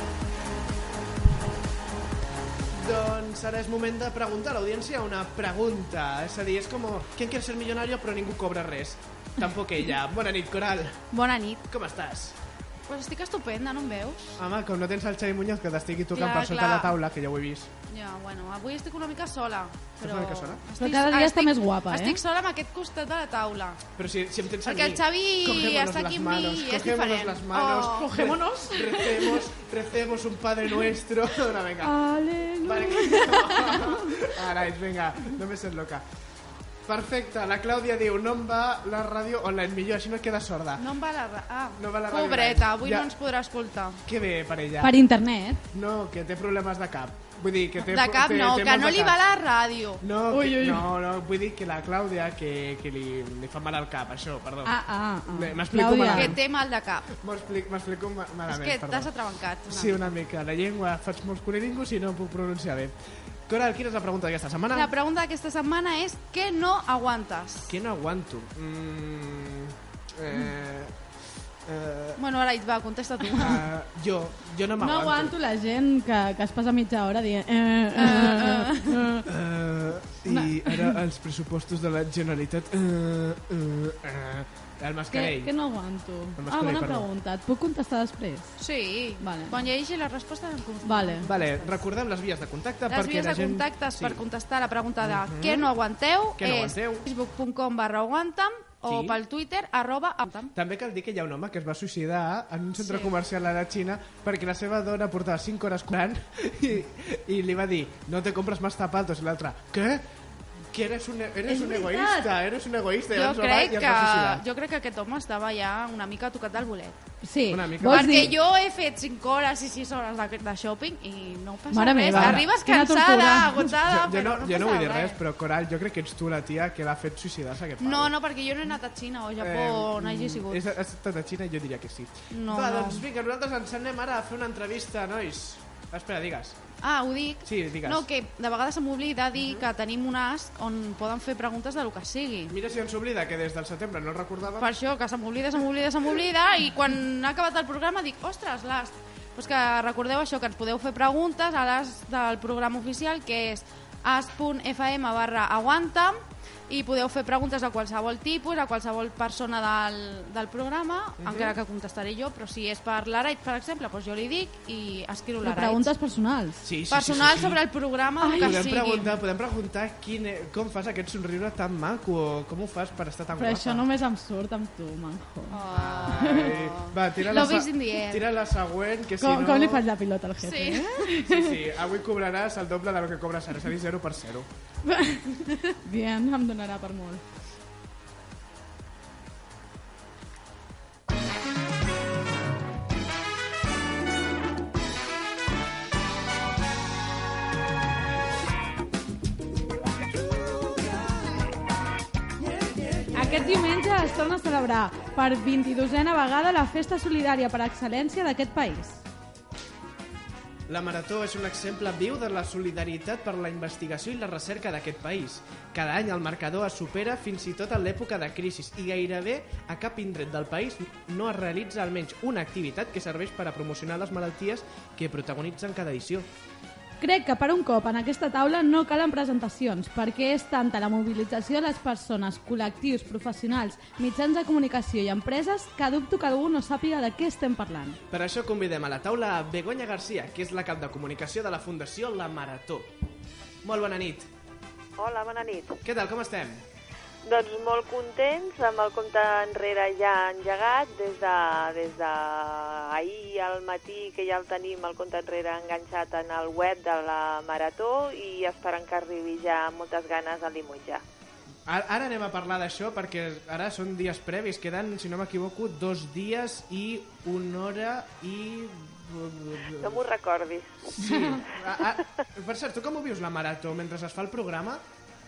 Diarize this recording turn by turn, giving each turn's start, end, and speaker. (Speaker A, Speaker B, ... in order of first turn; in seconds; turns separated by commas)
Speaker A: 2.7-11.0, Speaker B: 11.1-11.6, Speaker A: 11.7-12.3, Speaker B: 12.9-14.4, Speaker A: 14.4-17.7, Speaker B: 16.1-16.9, Speaker B: 17.9-23.8, Speaker A: 20.0-20.6, Speaker C: 20.8-22.2, Speaker A: 24.0-32.0, Speaker B: 24.6-28.3, Speaker C: 27.9-29.4, Speaker C: 31.8-34.2, Speaker A: 32.6-36.0, Speaker A: 36.9-40.8, Speaker B: 40.8-44.0, Speaker A: 41.8-43.1, Speaker A: 44.0-45.0, Speaker C: 44.8-45.6, Speaker A: 45.7-49.2, Speaker B: 47.8-50.0, Speaker A: 50.0-54.7, Speaker C: 50.3-50.9, Speaker C: 54.6-56.4, Speaker A: 55.3-56.4, Speaker B: 56.1-57.1, Speaker A: 57.1-59.1, Speaker B: 58.5-60.1, Speaker A: 59.7-62.9, Speaker A: 63.5-64.9, Speaker B: 64.7-67.7, Speaker A: 67.7-70.9, Speaker A: 71.7-72.2, Speaker B: 72.2-73.7, Speaker A: 73.3-75.3, Speaker C: 74.8-79.2, Speaker B: 78.0-79.0, Speaker A: 79.2-85.5, Speaker C: 80.3-81.0, Speaker C: 85.1-88.5, Speaker A: 86.4-87.1, Speaker B: 88.6-91.8, Speaker C: 89.2-89.5, Speaker C: 90.8-91.3, Speaker A: 91.2-94.2, Speaker B: 92.9-100.5, Speaker A: 95.0-95.7, Speaker A: 96.4-97.0, Speaker A: 98.8-99.2, Speaker A: 100.5-110.0, Speaker B: 102.8-103.1, Speaker A: 110.7-114.4, Speaker C: 111.5-112.3, Speaker B: 113.1-117.0, Speaker C: 117.2-118.3, Speaker A: 117.5-118.3, Speaker B: 117.8-125.2, Speaker C: 121.7-123.6, Speaker A: 122.1-122.5, Speaker A: 123.6-128.1, Speaker B: 127.8-130.7, Speaker A: 129.4-136.6, Speaker B: 132.3-133.0, Speaker B: 136.8-142.5, Speaker A: 137.4-138.0, Speaker A: 142.5-144.7, Speaker B: 144.6-156.2, Speaker B: 156.7-165.9, Speaker A: 161.2-161.5, Speaker C: 165.4-166.6, Speaker A: 166.6-167.6, Speaker B: 166.9-169.1, Speaker C: 168.2-168.6, Speaker A: 168.3-173.8, Speaker C: 173.4-175.6, Speaker B: 175.5-178.3, Speaker A: 175.7-179.8, Speaker C: 176.2-176.5, Speaker C: 179.2-181.6, Speaker B: 180.4-180.9, Speaker A: 181.2-184.5, Speaker C: 184.8-187.2, Speaker C: 203.1-209.0, Speaker A: 210.7-226.3, Speaker C: 227.0-238.0, Speaker A: 238.1-242.9, Speaker A: 243.6-244.3, Speaker D: 245.0-245.8, Speaker A: 245.8-246.6, Speaker D: 247.2-261.0, Speaker A: 261.7-270.0, Speaker D: 269.8-271.0, Speaker A: 270.9-274.8